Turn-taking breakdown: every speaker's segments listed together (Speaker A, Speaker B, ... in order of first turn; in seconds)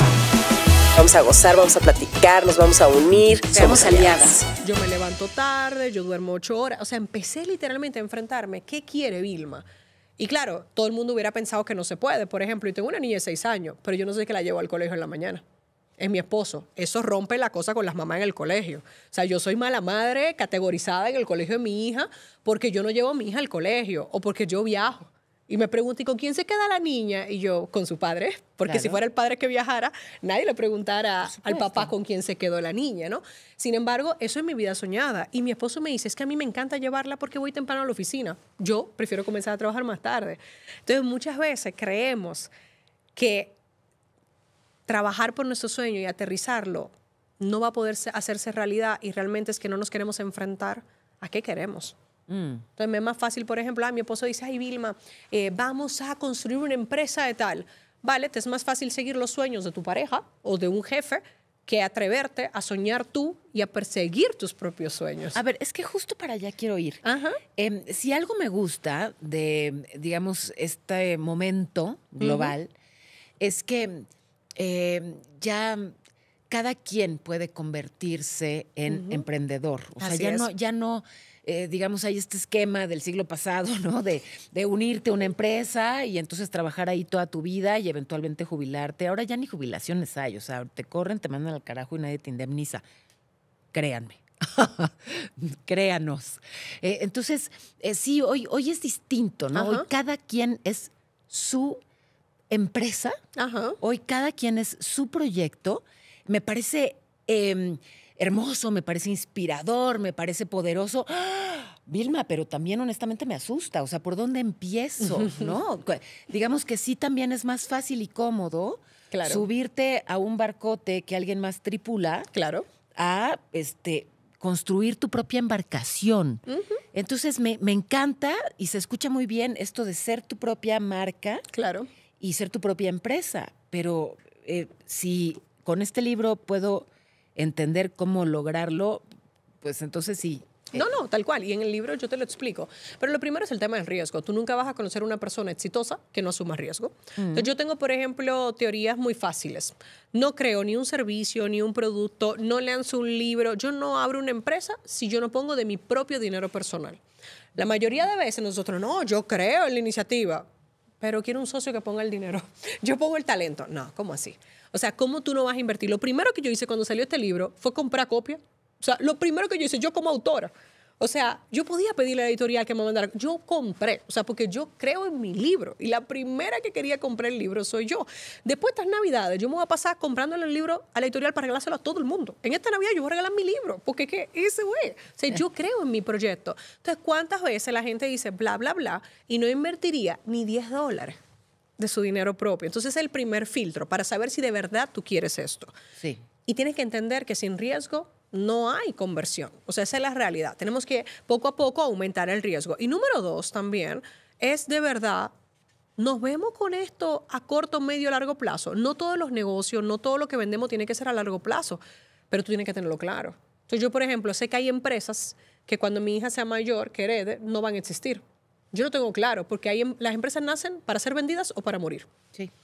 Speaker A: 0.9-4.5
Speaker B: 3.5-4.4, 28.7-29.0, 31.3-31.9, 52.3-52.6, 65.3-67.0, 67.6-72.7, 73.4-74.1, 74.6-75.9, 76.5-92.8, 93.7-101.8, 102.5-103.2, 103.8-122.3, 123.0-126.4, 126.9-131.4, 132.2-139.1, 139.6-140.8, 147.2-147.5
Speaker C: 4.6-9.7, 10.2-15.4, 16.0-42.5, 43.1-43.5, 44.9-52.0, 52.8-65.4, 67.0-67.4, 72.2-72.6, 78.9-79.2, 80.0-80.5, 99.5-99.9, 103.4-103.8, 115.0-115.5, 119.1-119.5, 122.3-122.7, 126.5-126.8, 131.5-131.9, 140.7-157.0, 157.6-160.5, 161.0-191.2, 191.8-195.7, 196.5-205.3, 206.0-222.1